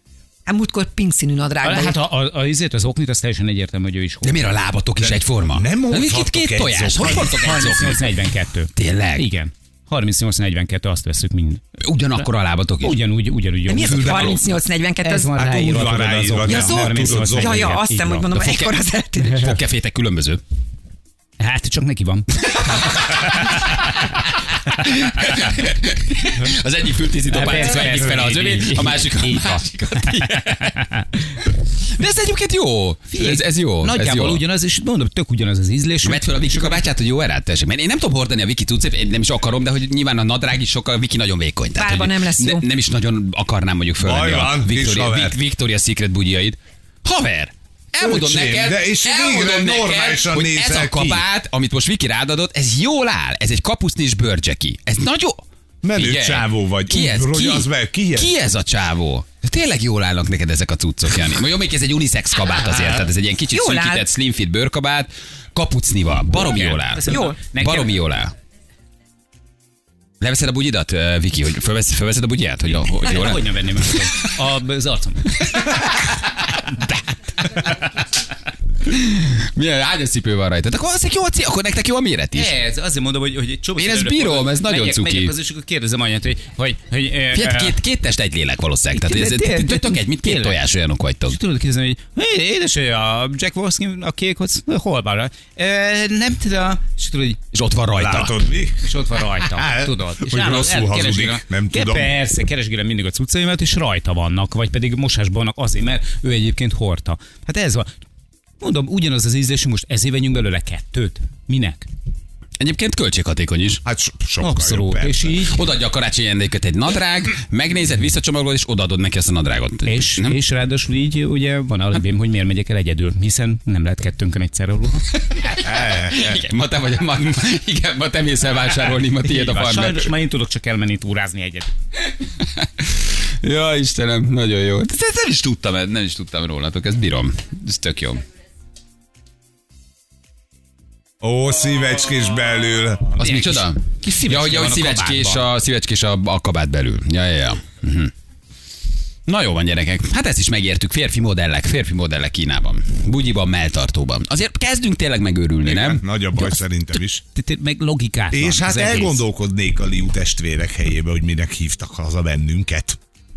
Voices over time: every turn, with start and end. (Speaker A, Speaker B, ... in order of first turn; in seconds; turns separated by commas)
Speaker A: 0.5-2.0, Speaker B: 1.6-4.3, Speaker C: 4.2-8.1, Speaker D: 5.0-7.4, Speaker B: 7.0-11.6, Speaker C: 8.7-9.2, Speaker C: 11.8-12.9, Speaker B: 12.8-14.4, Speaker A: 13.7-15.6, Speaker C: 13.8-14.4, Speaker B: 15.0-18.4, Speaker D: 15.3-17.7, Speaker A: 16.4-19.5, Speaker C: 18.4-20.4, Speaker B: 21.4-22.3, Speaker C: 22.6-30.8, Speaker B: 22.9-24.0, Speaker B: 27.3-31.1, Speaker C: 31.5-34.4, Speaker B: 33.1-36.8, Speaker C: 36.0-55.4, Speaker A: 41.8-42.6, Speaker D: 44.0-45.4, Speaker D: 48.0-51.2, Speaker D: 55.8-58.3, Speaker C: 55.9-68.3, Speaker A: 63.5-64.1, Speaker B: 66.3-67.9, Speaker A: 67.1-67.4, Speaker C: 70.2-74.3, Speaker B: 72.7-75.8, Speaker C: 75.4-76.1, Speaker C: 78.8-82.5, Speaker B: 82.3-87.8, Speaker C: 83.8-85.3, Speaker C: 87.3-91.4, Speaker B: 88.9-90.6, Speaker B: 91.3-97.4, Speaker C: 97.5-98.4, Speaker D: 97.9-98.9, Speaker B: 98.8-107.9, Speaker D: 99.4-102.1, Speaker B: 108.6-111.9, Speaker C: 112.6-113.8, Speaker D: 113.8-115.3, Speaker B: 114.4-115.6, Speaker C: 115.5-120.4, Speaker B: 119.8-125.0, Speaker C: 125.3-130.1, Speaker D: 125.6-126.4, Speaker B: 129.2-131.7, Speaker C: 132.4-132.9, Speaker C: 133.4-138.2, Speaker D: 141.2-143.2, Speaker C: 143.2-148.1, Speaker B: 143.2-145.5, Speaker C: 149.3-156.0, Speaker D: 155.6-157.2, Speaker B: 157.3-159.2, Speaker D: 158.3-163.0